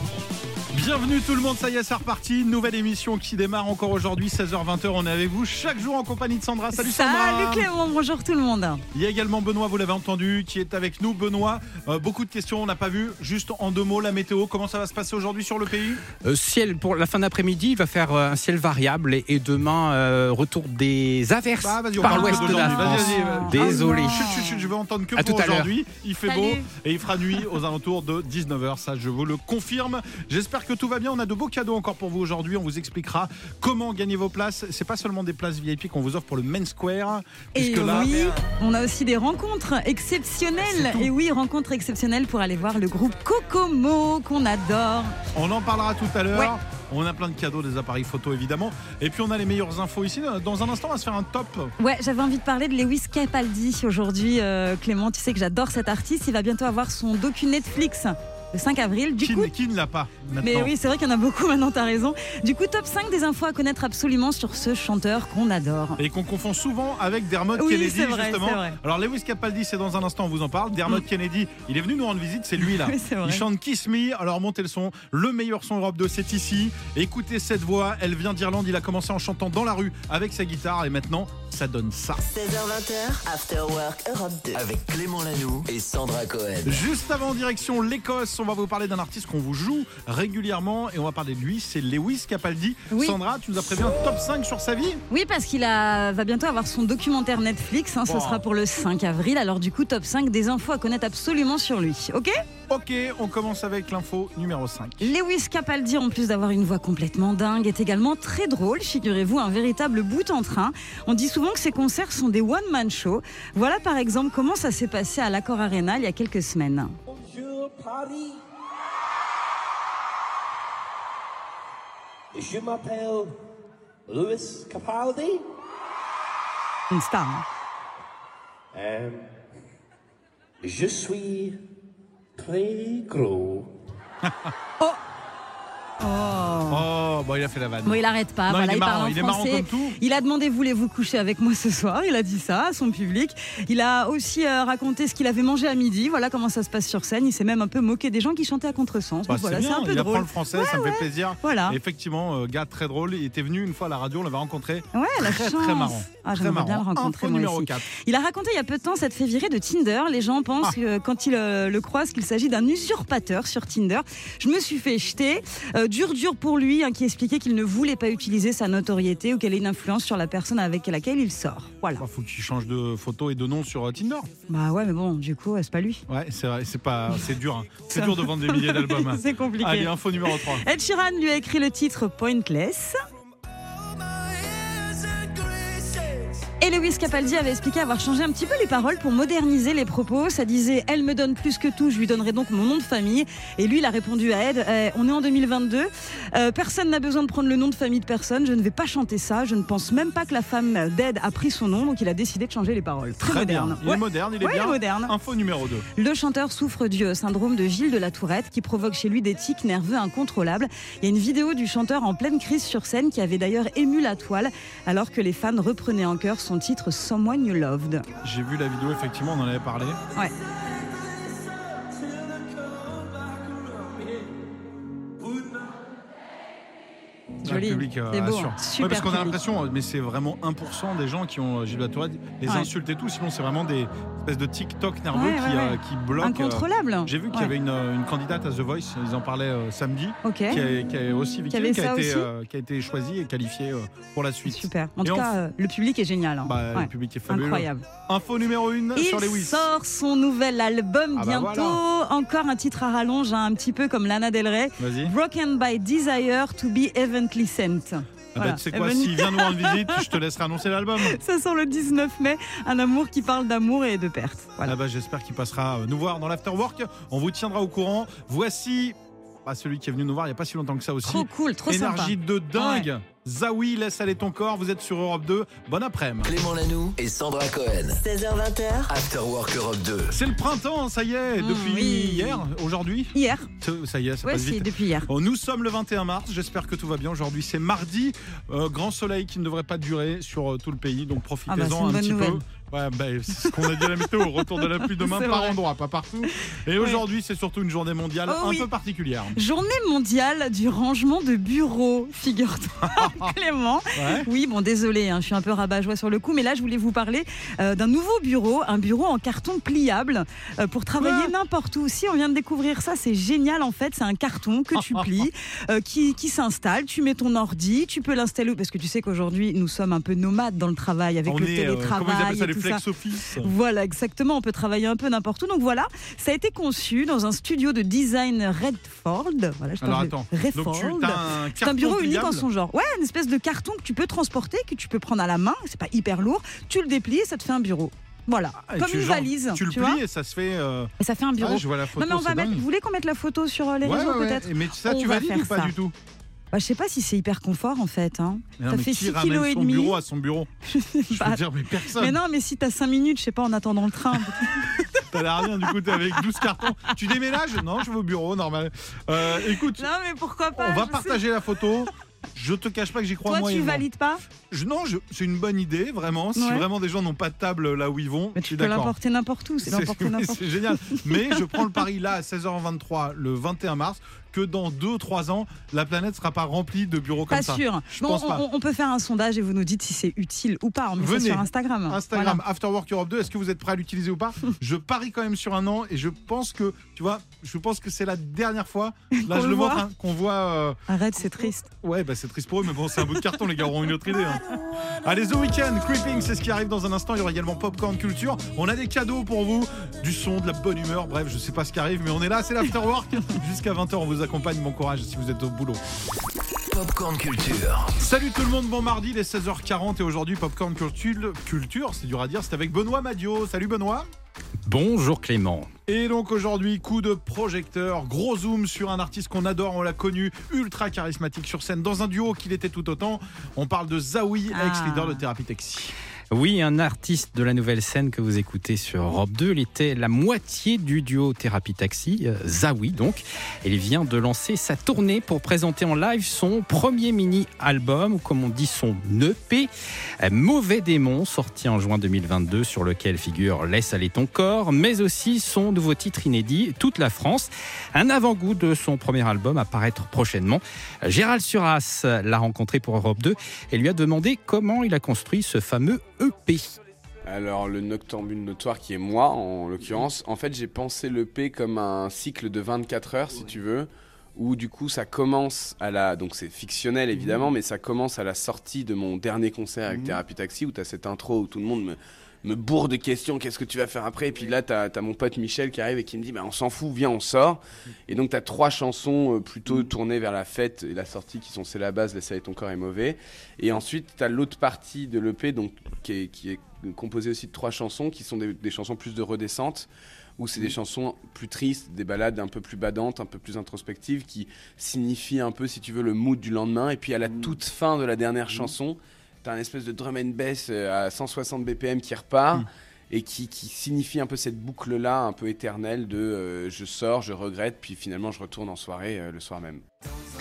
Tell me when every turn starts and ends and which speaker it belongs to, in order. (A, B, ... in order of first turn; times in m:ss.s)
0:00.7-0:07.7 A
0:06.7-0:08.8 B
0:08.9-0:16.0 A
0:16.2-0:24.5 C
0:21.6-0:38.4 A
0:22.0-0:24.6 B
0:25.2-0:25.7 C
0:26.3-0:26.6 B
0:37.5-0:45.2 B
0:40.6-0:41.1 A
0:45.3-0:51.7 A
0:51.8-0:59.5 B
0:59.2-1:00.7 A
1:00.4-1:06.0 B
1:06.0-1:22.2 A
1:07.5-1:08.8 B
1:12.6-1:13.4 B
1:22.2-1:24.6 D
1:24.5-1:26.8 E
1:26.6-1:35.0 A
1:32.9-1:33.2 B
1:35.1-1:42.3 B
1:38.0-1:38.4 A
1:42.7-1:45.1 A
1:45.0-1:57.0 B
1:57.1-1:58.4 F
2:02.3-2:03.4 F
2:04.1-2:05.4 F
2:06.9-2:07.4 B
2:08.7-2:09.2 F
2:10.6-2:11.6 F
2:12.4-2:13.7 F
2:14.2-2:14.5 A
2:16.0-2:16.8 B
2:16.7-2:20.0 A
2:17.8-2:31.8 B
2:29.3-2:37.9 A
2:34.9-2:52.0 B
2:52.0-2:54.3 A
2:54.5-2:56.0 B
2:56.1-3:00.6 A
2:57.9-3:03.0 B
3:06.6-3:25.1 B
3:23.2-3:25.8 A
3:26.0-3:38.0 B
3:38.2-3:40.0 A
3:41.7-3:44.3 F
3:45.2-3:45.7 F
3:47.4-3:49.4 B
3:47.4-4:05.3 A
3:55.1-3:57.5 B
4:00.2-4:00.6 B
4:01.5-4:02.3 B
4:04.4-4:07.8 B
4:06.4-4:09.7 A
4:09.0-4:20.1 B
4:11.1-4:11.8 A
4:14.8-4:15.1 A
4:18.3-4:21.2 A
4:21.0-4:24.7 B
4:24.6-4:36.3 A
4:31.0-4:32.9 B
4:36.2-4:38.0 E
4:37.9-4:38.9 D
4:38.9-4:40.1 E
4:40.1-4:59.4 A
4:41.4-4:42.4 B
4:43.1-4:43.5 B
4:44.2-4:45.1 B
4:51.5-4:52.4 B
4:53.4-4:55.6 B
4:56.8-4:57.0 B
4:58.3-4:58.7 B
4:59.3-5:22.8 B
5:02.8-5:03.3 A
5:03.9-5:04.3 A
5:11.0-5:11.3 A
5:14.7-5:15.1 A
5:21.2-5:23.5 A
5:23.3-5:40.0 B
5:29.8-5:32.4 A
5:38.5-5:42.6 A
5:41.0-5:45.7 B
5:43.8-5:45.9 A
5:46.5-5:50.0 B
5:48.6-5:50.5 A
5:50.7-5:56.2 B
5:51.1-5:52.2 A
5:55.1-5:59.9 A
5:59.2-6:01.2 B
6:00.5-6:03.8 A
6:03.2-6:04.2 B
6:04.5-6:08.9 A
6:06.3-6:06.6 B
6:08.4-6:11.7 B
6:09.6-6:18.4 A
6:17.3-6:22.4 B
6:21.0-6:30.8 A
6:29.1-6:29.8 B
6:30.9-6:31.7 B
6:31.4-6:34.4 A
6:35.0-6:45.8 A
6:46.7-6:47.9 E
6:48.0-6:54.1 A
6:54.6-6:55.7 C
6:55.9-7:05.9 A
7:04.5-7:05.2 B
7:06.3-7:19.7 C
7:20.2-7:36.8 C
7:37.2-8:29.8 G